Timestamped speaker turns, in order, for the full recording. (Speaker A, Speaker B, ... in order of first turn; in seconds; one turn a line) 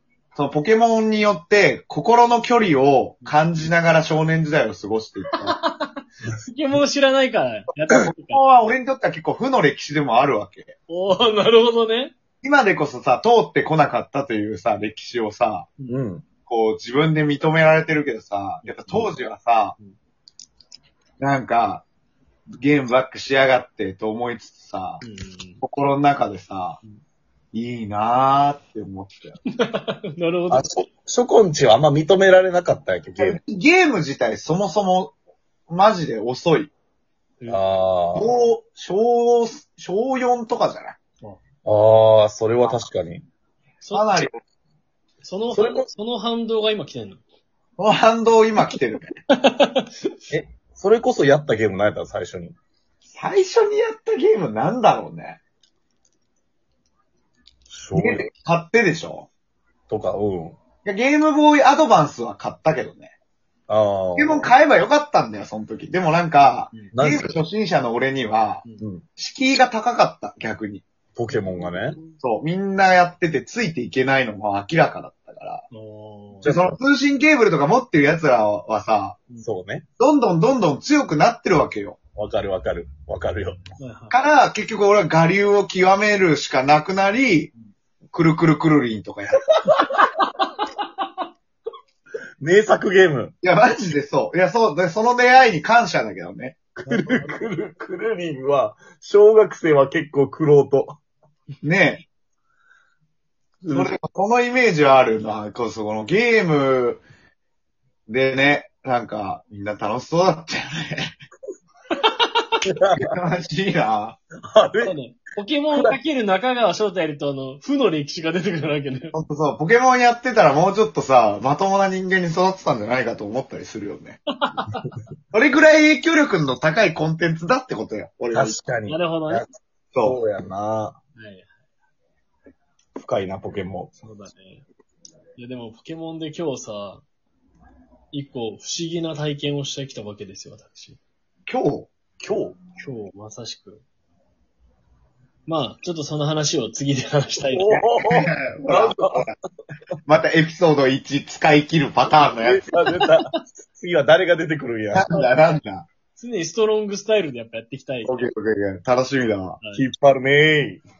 Speaker A: 0.3-5.5
Speaker B: 3.2-3.7
Speaker B: 5.3-8.4
Speaker A: 8.1-10.7
Speaker B: 10.9-12.1
Speaker A: 12.4-15.7
Speaker C: 15.9-16.2
Speaker A: 16.5-19.8
Speaker B: 18.6-19.1
Speaker A: 21.2-21.9
Speaker A: 22.6-25.0
Speaker B: 25.0-25.6
Speaker A: 25.6-26.8
Speaker A: 27.5-29.4
Speaker B: 29.6-30.7
Speaker C: 30.5-33.4
Speaker A: 33.2-35.1
Speaker A: 35.7-36.7
Speaker C: 37.5-38.3
Speaker A: 38.1-41.0
Speaker C: 41.6-43.2
Speaker B: 43.8-44.3
Speaker A: 43.9-44.4
Speaker B: 45.2-47.2
Speaker C: 45.5-45.9
Speaker A: 47.8-49.1
Speaker B: 49.4-50.2
Speaker C: 50.3-52.5
Speaker A: 53.1-55.4
Speaker C: 57.7-58.3
Speaker A: 57.9-59.3
Speaker C: 59.9-60.6
Speaker A: 60.8-63.1
Speaker C: 63.7-64.5
Speaker A: 64.2-68.6
Speaker C: 66.9-67.4
Speaker A: 69.2-70.8
Speaker C: 71.2-72.0
Speaker B: 71.3-72.2
Speaker A: 72.2-75.6
Speaker B: 75.7-76.5
Speaker C: 76.4-76.7
Speaker A: 76.4-79.2
Speaker C: 79.4-79.8
Speaker A: 80.0-82.0
Speaker C: 82.2-83.7
Speaker B: 83.8-84.2
Speaker A: 84.1-87.5
Speaker A: 88.1-89.5
Speaker C: 92.4-93.3
Speaker A: 93.4-96.6
Speaker C: 96.8-101.0
Speaker B: 96.9-97.5
Speaker A: 101.6-102.0
Speaker C: 103.6-103.9
Speaker A: 103.7-107.0
Speaker A: 108.1-111.1
Speaker B: 112.1-112.5
Speaker C: 112.6-113.1
Speaker A: 113.0-114.2
Speaker C: 114.5-114.9
Speaker B: 114.8-119.1
Speaker C: 115.7-116.0
Speaker A: 119.1-124.2
Speaker B: 124.4-124.9
Speaker A: 125.3-128.6
Speaker C: 128.3-129.5
Speaker B: 128.9-129.5
Speaker A: 129.9-130.2
Speaker C: 130.0-131.0
Speaker B: 131.2-131.5
Speaker C: 132.9-133.9
Speaker B: 134.0-134.6
Speaker B: 135.4-137.0
Speaker B: 138.1-141.0
Speaker A: 141.4-141.9
Speaker C: 142.2-142.6
Speaker B: 142.8-143.8
Speaker B: 145.5-147.8
Speaker C: 147.5-149.2
Speaker A: 147.7-149.4
Speaker A: 150.0-152.7
Speaker C: 152.4-155.1
Speaker B: 152.9-153.4
Speaker A: 154.9-155.9
Speaker B: 156.2-158.2
Speaker A: 158.0-159.6
Speaker B: 159.6-159.8
Speaker C: 159.7-160.8